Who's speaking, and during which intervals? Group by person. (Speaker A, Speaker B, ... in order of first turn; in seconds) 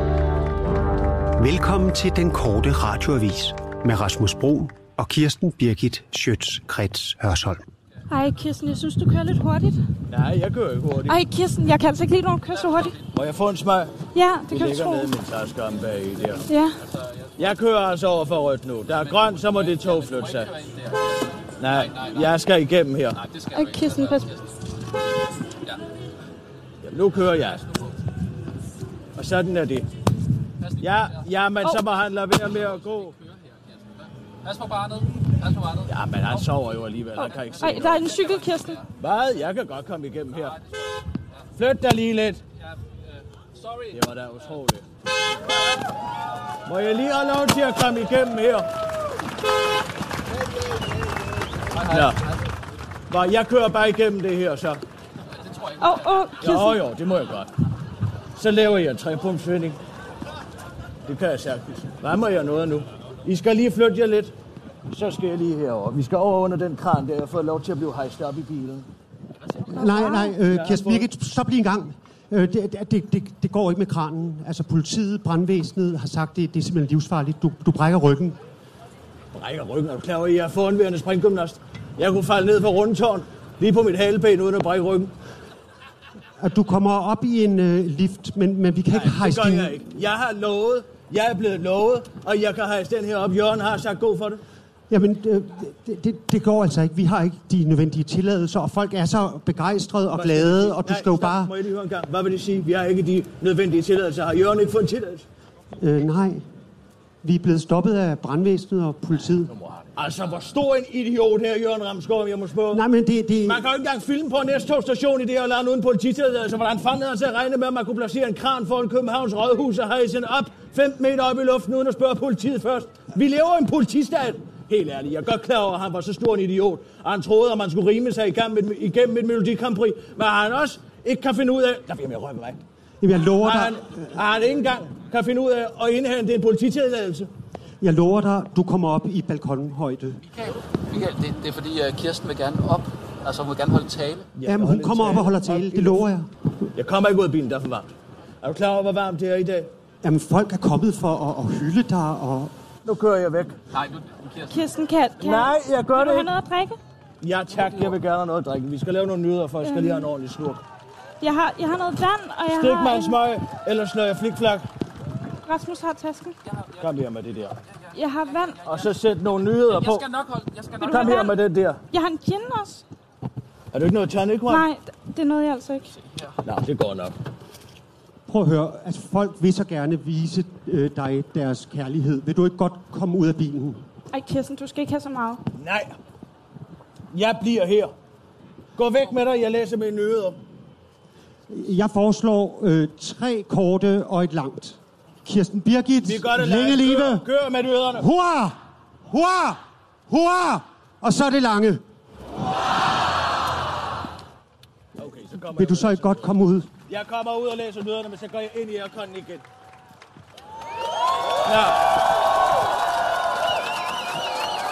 Speaker A: 1.4-7.7, 69.7-78.4, 86.4-89.9, 94.9-101.5, 105.8-106.5, 107.2-109.5, 112.7-113.6, 133.0-134.1, 137.8-140.2, 144.4-146.3, 150.0-152.5, 178.3-183.8, 191.5-197.2, 198.0-198.6, 199.1-201.8, 205.6-206.7
Speaker B: 8.1-9.8, 11.1-13.0, 14.1-15.1, 16.5-16.8, 23.5-24.3, 37.2-38.8, 55.8-56.8, 154.5-156.8, 159.6-160.1, 161.2-163.2, 165.4-166.3, 167.9-168.8, 170.8-171.3, 171.9-172.8, 174.5-175.9, 184.1-185.4
Speaker C: 10.1-11.2, 13.1-13.9, 14.5-16.4, 17.4-20.5, 21.6-23.2, 26.8-27.6, 29.2-29.9, 30.8-33.1, 35.9-38.1, 39.0-40.5, 41.6-42.4, 43.9-44.8, 46.7-48.7, 51.9-52.2, 53.1-54.8, 56.4-57.5, 58.4-59.8, 61.1-64.3, 64.9-68.9, 70.0-71.0, 79.3-85.1, 88.9-94.4, 100.1-105.2, 109.5-112.8, 113.5-132.6, 133.4-137.3, 144.3-146.1, 146.8-147.9, 148.4-149.7, 152.8-153.6, 155.2-156.3, 157.2-160.6, 162.5-164.7, 166.8-167.5, 168.6-170.0, 170.9-171.8, 173.7-174.7, 176.4-177.1, 185.6-185.9, 187.1-187.9, 188.8-190.4, 196.0-198.1, 205.0-206.3, 206.9-209.4, 211.4-211.8
Speaker D: 19.2-21.2, 21.7-22.2, 23.2-24.4, 34.4-35.9, 37.7-38.8, 43.5-43.9, 51.8-52.3, 55.7-56.0, 140.4-144.3, 153.7-154.5, 169.9-171.2